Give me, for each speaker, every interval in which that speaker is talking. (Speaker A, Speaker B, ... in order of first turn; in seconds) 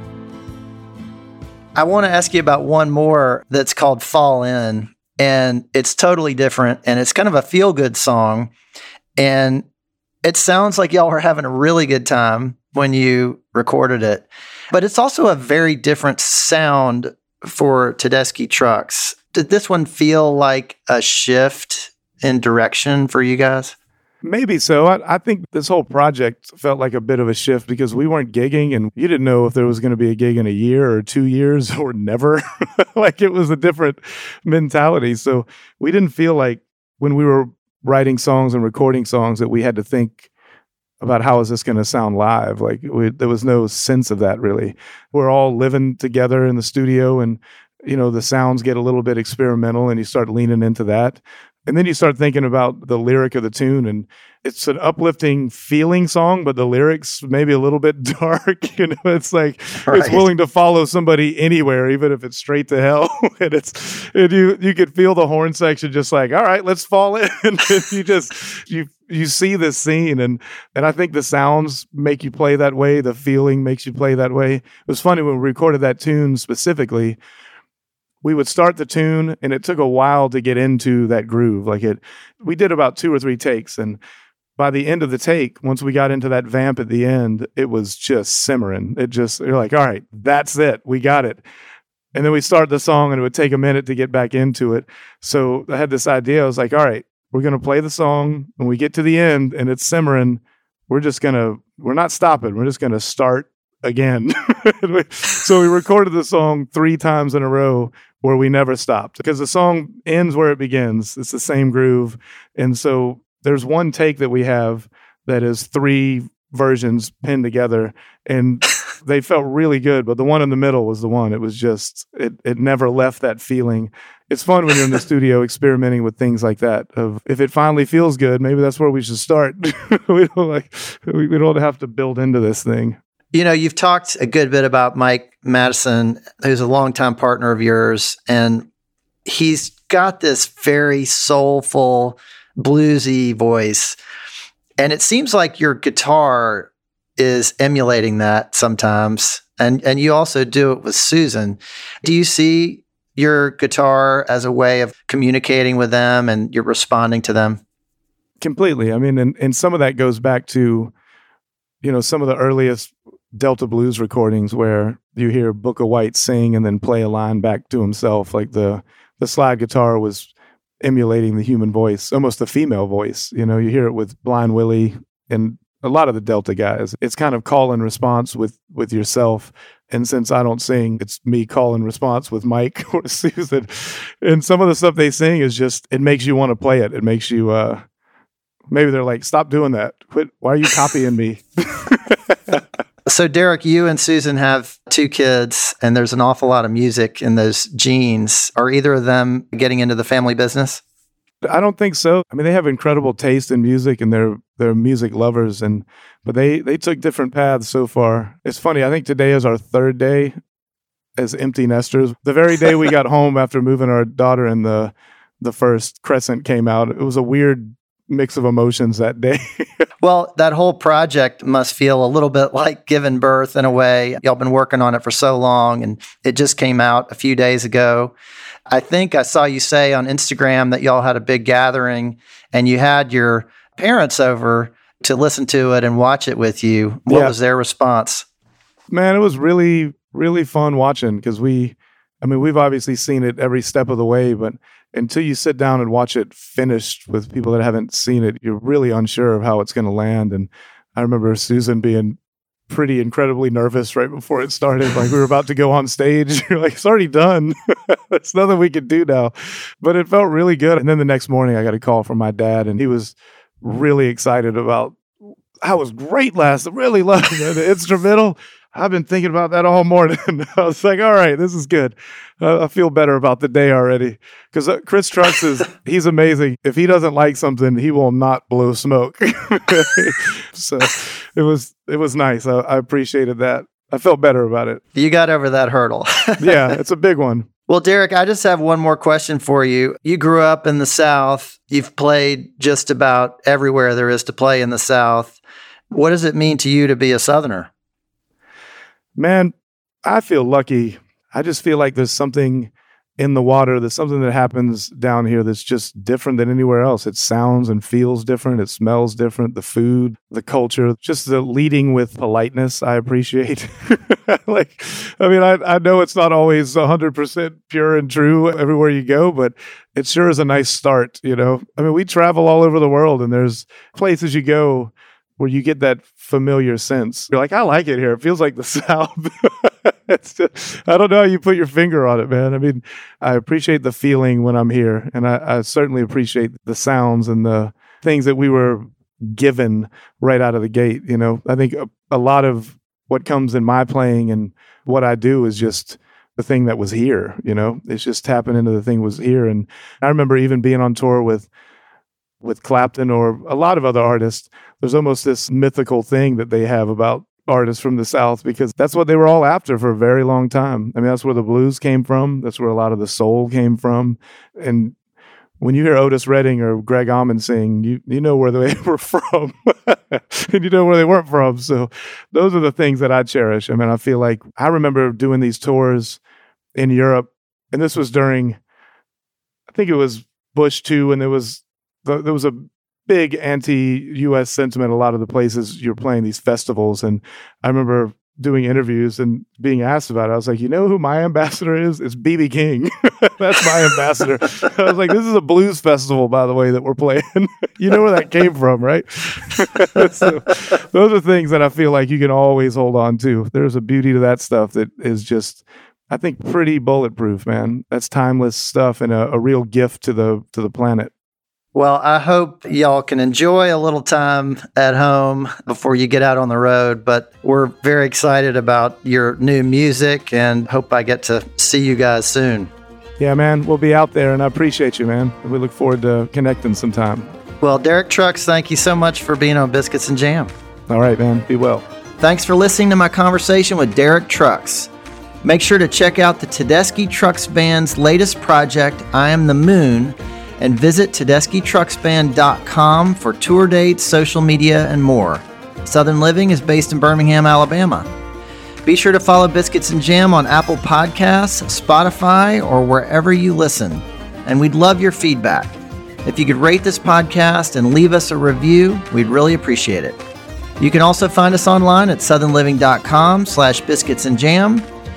Speaker A: 1.8-8.5, 9.2-9.6, 10.2-23.7, 59.9-60.2, 133.3-138.7, 139.2-143.9, 144.8-157.6, 193.1-200.8, 220.0-228.1, 228.7-238.2, 284.9-286.7, 287.7-295.4, 295.9-297.7, 411.7-422.7, 427.6-430.5, 432.2-434.9, 435.4-448.1, 448.8-460.2, 460.8-464.9
Speaker B: 24.2-40.3, 41.0-77.2, 78.2-84.0, 84.6-91.4, 92.1-133.0, 158.4-160.9, 161.8-170.3, 170.8-187.8, 188.7-192.6, 201.4-210.3, 211.2-219.8, 237.1-237.3, 238.9-252.2, 252.7-265.0, 265.6-284.8, 286.4-287.5, 299.1-299.5, 300.0-351.5, 352.4-364.9, 365.6-376.2, 376.8-378.6, 379.7-411.1, 423.2-427.3, 430.9-431.8